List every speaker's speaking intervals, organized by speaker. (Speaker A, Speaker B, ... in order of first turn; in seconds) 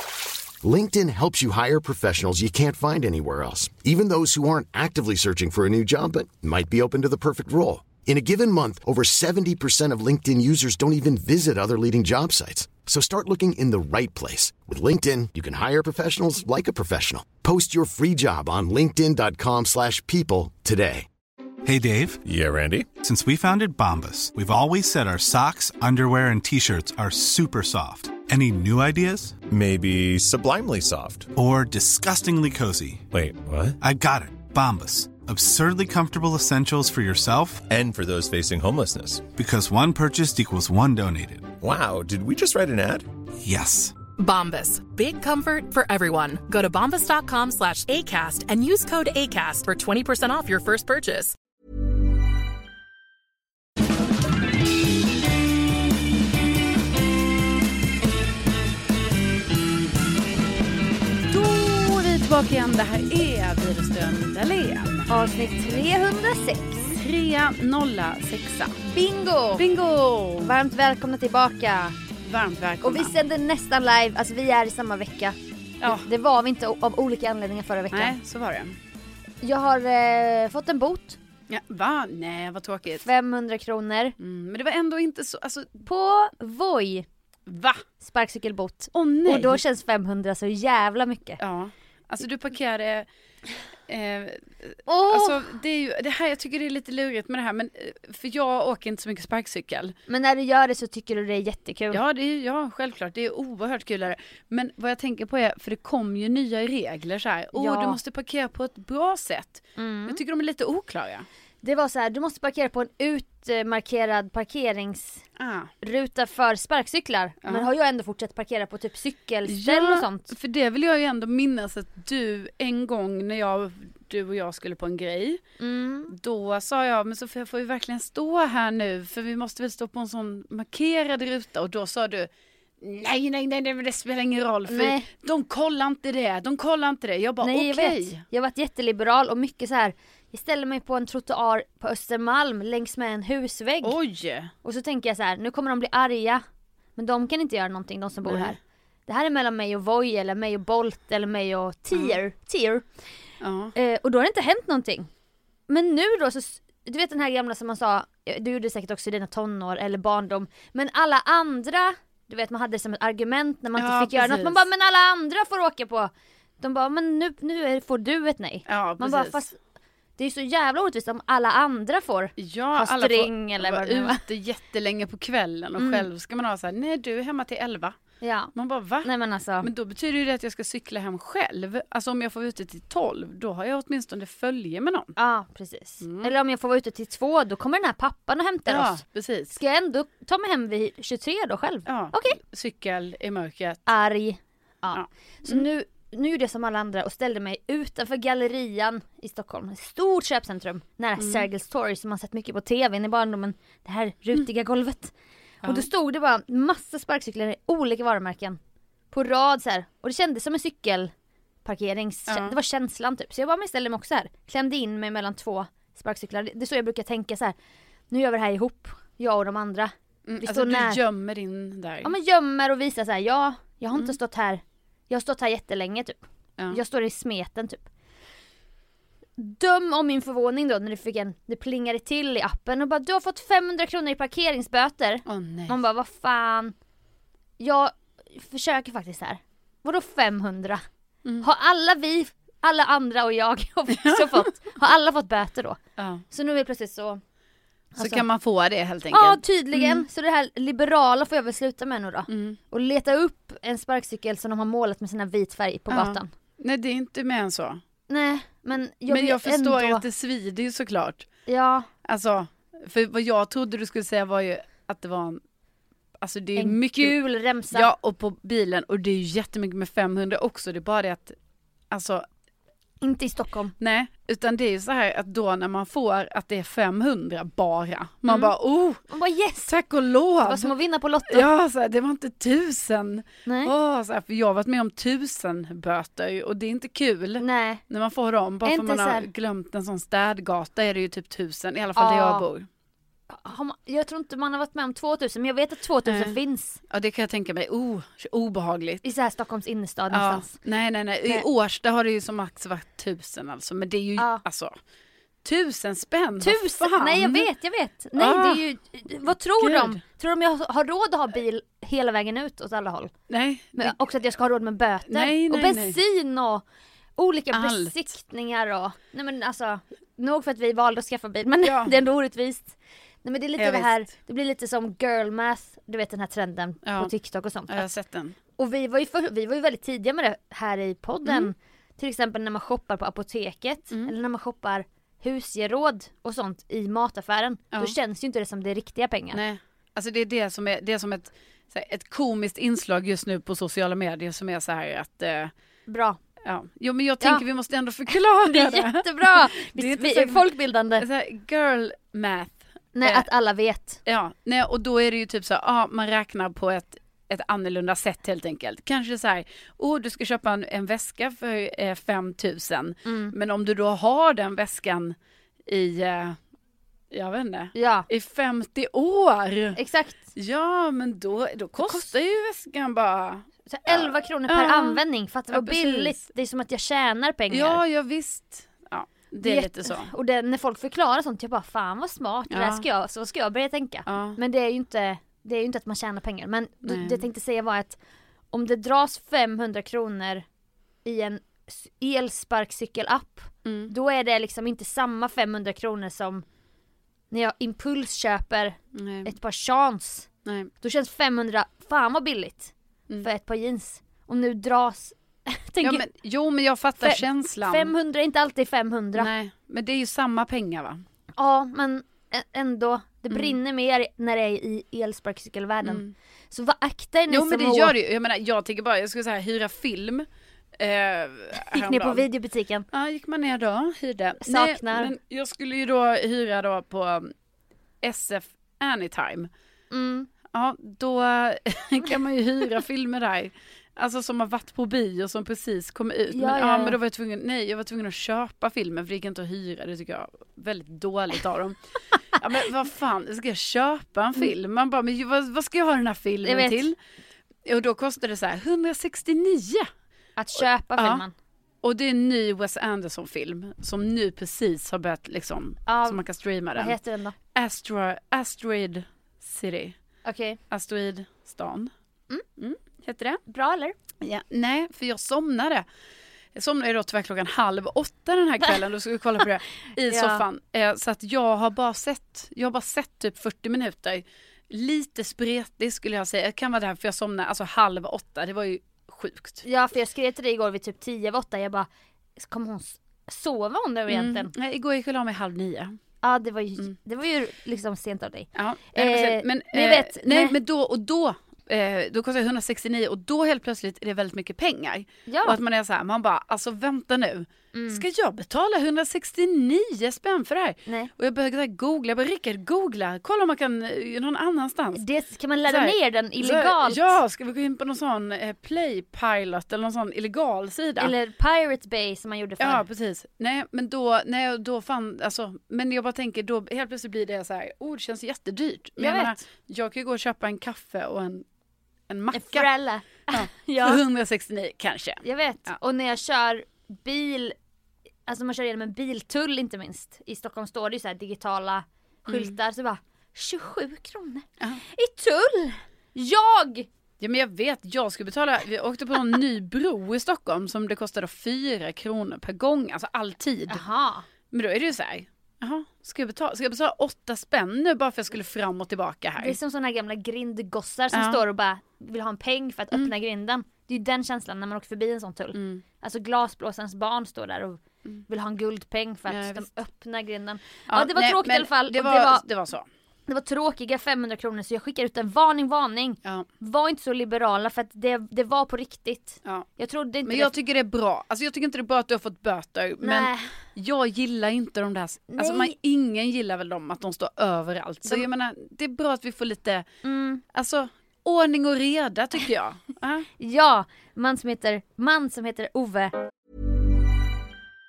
Speaker A: 0.6-21.1
Speaker B: 21.6-22.2, 22.9-29.4, 31.3-33.1, 33.8-37.6, 39.3-41.5, 43.4-44.0
Speaker C: 22.2-22.9, 29.5-31.3, 33.1-33.8, 37.6-39.3, 41.6-43.0
Speaker D: 44.2-51.4
Speaker E: 61.3-65.1, 66.9-68.8, 69.6-70.5, 72.2-73.1, 77.9-78.8, 81.5-83.1, 84.2-85.8, 87.5-87.8, 88.9-89.6, 91.4-93.1, 93.9-100.0, 101.9-111.2, 115.4-115.7, 119.5-125.4, 126.1-132.3, 132.8-138.2, 143.8-144.5, 148.2-148.6, 153.4-153.7, 163.8-164.7, 168.7-169.4, 172.4-178.0, 178.6-179.1, 179.6-185.2, 186.0-186.3, 188.7-189.6, 191.9-193.8, 194.9-195.6, 201.2-201.5, 212.3-212.6, 220.3-222.1, 235.3-235.8, 244.0-244.4, 246.0-246.2, 248.0-250.0, 252.3-252.6, 255.9-257.8, 259.1-261.2, 262.0-265.4, 266.2-267.2, 267.7-271.3, 271.9-272.2, 273.8-279.0, 279.7-280.7, 281.3-292.7, 296.1-296.4, 296.9-299.0, 300.1-304.8, 305.4-307.5, 308.2-308.6, 309.6-310.0, 313.3-313.9, 315.1-316.0, 317.5-317.9, 321.6-321.9, 323.6-324.1, 326.8-327.1, 327.7-328.4, 331.2-331.5, 339.3-345.5, 346.4-353.2, 354.1-365.1, 365.7-366.4, 367.1-369.8, 370.3-376.3, 377.5-380.1, 382.5-382.8, 384.1-384.4, 386.8-387.2, 393.6-393.9, 398.9-399.3, 400.4-400.7, 405.8-407.9, 409.1-411.0, 413.3-413.6, 415.8-416.1, 417.3-420.3, 420.8-422.2, 422.9-427.3, 428.0-429.5, 430.5-441.8, 442.4-446.9, 447.6-449.9, 450.9-451.2, 451.8-456.9, 457.5-459.9, 460.7-461.9, 462.6-463.4, 464.2-465.9, 466.5-479.6, 484.1-485.9, 488.6-505.0, 505.7-511.1, 512.6-521.5, 522.1-522.7, 523.3-525.8, 532.3-532.5, 537.2-543.8, 544.5-549.6, 551.1-551.4, 555.5-555.8, 559.3-559.7, 560.9-562.9, 570.2-579.9, 580.5-583.2
Speaker F: 65.1-66.9, 68.9-69.6, 70.4-72.0, 72.8-78.2, 79.4-81.2, 83.0-84.2, 85.8-87.1, 88.0-91.4, 94.9-95.4, 100.1-102.0, 107.5-108.0, 109.8-110.2, 111.6-115.2, 115.8-120.3, 125.6-126.1, 134.7-135.1, 137.4-144.0, 144.6-146.4, 147.0-152.9, 153.8-155.1, 155.7-169.6, 170.2-174.2, 175.8-176.1, 178.2-179.7, 185.2-189.0, 189.6-192.4, 193.9-205.1, 205.7-208.6, 209.1-211.1, 211.7-217.5, 218.1-221.0, 222.0-226.2, 226.7-227.8, 229.4-236.8, 237.6-240.8, 241.4-247.2, 248.0-248.2, 249.1-256.3, 258.1-260.0, 261.5-261.9, 266.6-267.9, 273.0-273.8, 278.3-278.5, 279.1-279.8, 280.4-281.5, 283.4-283.7, 287.4-287.8, 288.6-289.2, 291.9-292.4, 293.3-296.8, 299.0-300.5, 304.2-304.4, 306.4-313.1, 313.8-316.6, 317.2-327.9, 328.6-339.4, 345.9-346.2, 348.4-351.1, 352.9-354.0, 363.0-363.3, 367.7-368.1, 369.8-370.2, 371.8-372.1, 373.7-377.8, 379.4-388.0, 388.5-390.4, 391.0-396.4, 397.3-400.3, 400.8-406.0, 407.0-409.3, 411.4-417.9, 421.6-422.9, 424.4-425.1, 429.9-430.3, 436.3-437.0, 446.4-446.9, 450.4-451.3, 455.9-456.2, 456.7-457.3, 460.2-460.6, 463.5-464.0, 470.0-470.4, 479.6-484.5, 486.2-490.6, 495.3-495.6, 497.7-498.0, 504.9-507.2, 511.0-512.9, 519.0-519.4, 522.3-524.0, 525.2-527.5, 528.3-536.9, 543.7-544.2, 549.4-562.4, 563.3-570.5, 573.0-573.5, 575.3-575.8, 580.0-580.4, 583.4-586.1